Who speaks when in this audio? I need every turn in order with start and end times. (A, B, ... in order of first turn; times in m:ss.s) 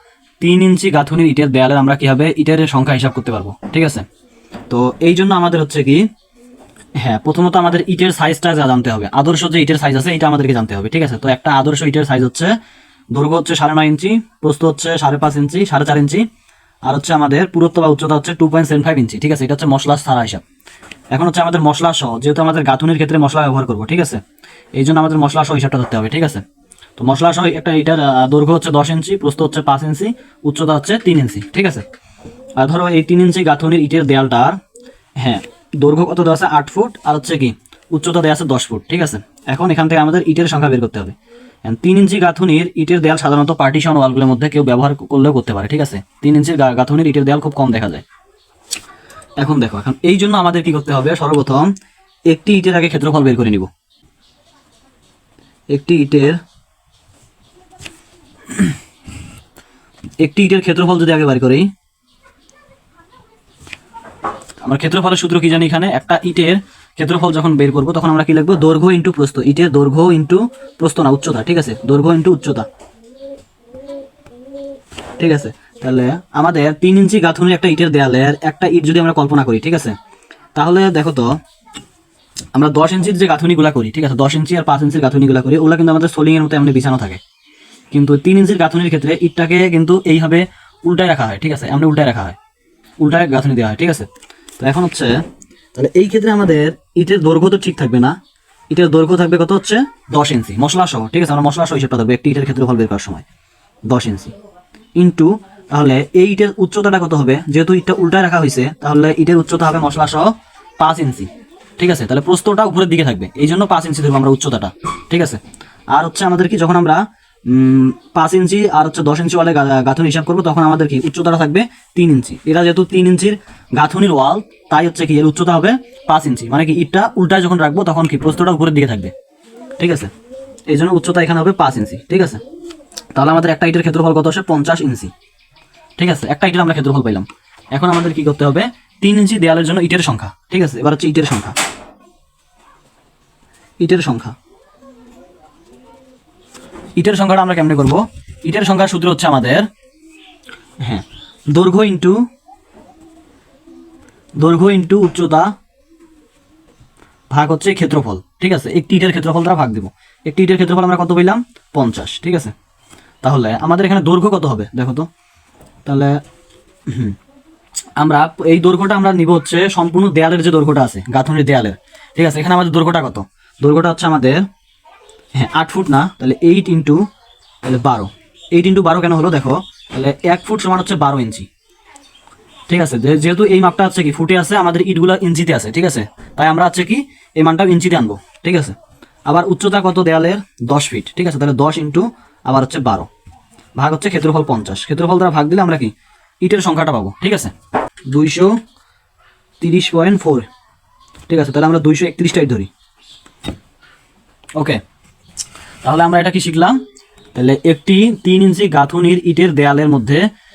0:00.4-0:04.0 A
0:04.7-0:06.0 A
0:07.0-0:12.5 A
0:13.1-0:16.2 A
0:16.9-0:20.4 A
0:21.1-0:24.2 A
0:24.8-0:26.4 A
0:27.0-0:31.8 A
0:32.6-0:34.6 A
0:35.2-0:48.0 A
0:49.4-0:51.7 A
0:52.3-0:53.7 A
0:55.7-0:56.4 A
1:00.2-1:01.7 A
1:04.6-1:12.7 A
1:15.2-1:20.0 A
1:20.6-1:21.3 A
1:22.5-1:27.2 A
1:27.9-1:32.4 A
1:33.0-1:34.1 A
1:34.6-1:35.2 A
1:35.7-1:38.2 A
1:38.7-1:43.2 A
1:43.9-1:44.3 A
1:45.0-1:55.4 A
1:55.9-2:09.1 A
2:09.8-2:10.1 A
2:10.7-2:12.4 A
2:13.1-2:15.1 A
2:16.0-2:21.5 A
2:23.8-2:24.4 A
2:27.0-2:29.7 A
2:30.8-2:32.2 A
2:34.4-2:35.5 A
2:37.3-2:42.5 A
2:43.2-2:45.1 A
2:45.8-2:46.2 A
2:46.9-2:47.2 A
2:48.0-2:54.4 A
2:55.4-2:57.0 A
2:57.6-3:01.5 A
3:02.7-3:13.1 A
3:13.8-3:15.9 A
3:16.4-3:17.5 A
3:18.1-3:18.6 A
3:19.6-3:20.5 A
3:21.3-3:22.7 A
3:25.8-3:26.8 A
3:27.3-3:30.2 A